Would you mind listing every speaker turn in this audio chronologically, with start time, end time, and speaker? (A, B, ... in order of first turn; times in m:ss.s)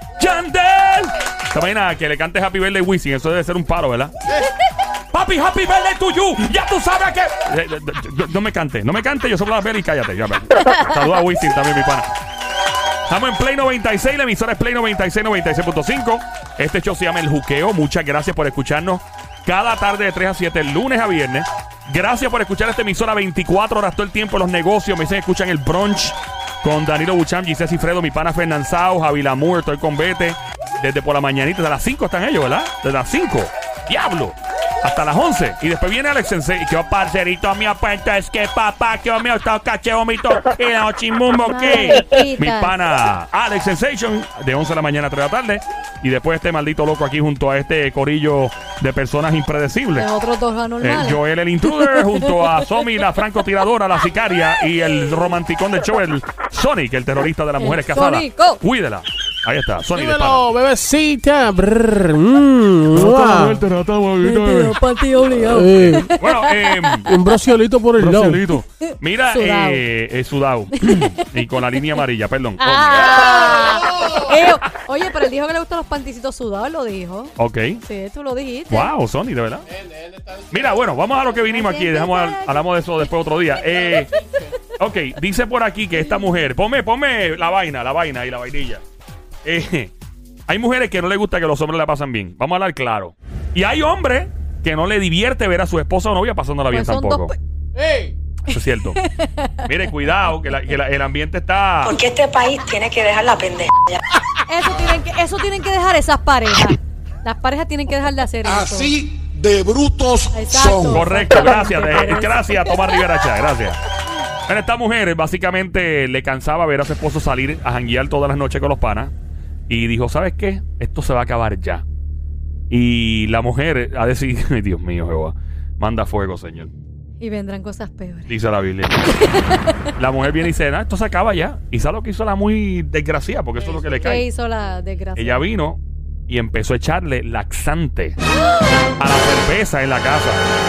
0:00.2-0:04.1 A
0:05.1-0:12.1 A
0:13.1-0:50.1 A
0:41.4-0:42.8 B
0:50.0-0:51.2 B
0:50.8-1:00.5 A
0:51.8-0:52.6 B
0:57.6-0:58.6 B
0:59.9-1:03.7 C
1:02.9-1:04.8 A
1:04.2-1:07.3 B
1:05.4-1:06.1 C
1:05.9-1:07.1 A
1:07.0-1:08.4 C
1:08.0-1:13.2 A
1:09.2-1:09.8 B
1:10.8-1:11.8 B
1:12.6-1:18.9 B
1:13.2-1:14.3 C
1:17.4-1:17.8 A
1:18.7-1:19.6 A
1:19.7-1:21.2 C
1:20.5-1:24.1 A
1:21.5-1:22.6 B
1:23.6-1:24.6 C
1:24.7-1:28.8 A
1:29.4-1:29.9 A
1:30.5-1:37.3 A
1:36.7-1:37.3 B
1:37.8-1:38.1 C
1:38.4-1:39.0 A
1:38.9-1:39.7 B
1:39.6-1:42.0 A
1:41.8-1:44.0 D
1:44.4-1:49.0 B
1:48.4-1:51.0 E
1:50.3-1:53.0 B
1:50.9-1:53.8 A
1:54.5-1:59.1 A
1:59.7-2:01.8 A
2:02.7-2:06.7 A
2:07.2-2:08.3 B
2:08.3-2:09.1 A
2:09.1-2:09.8 B
2:10.0-2:14.2 A
2:13.7-2:14.0 C
2:13.9-2:15.4 B
2:15.2-2:18.2 A
2:19.0-2:20.5 A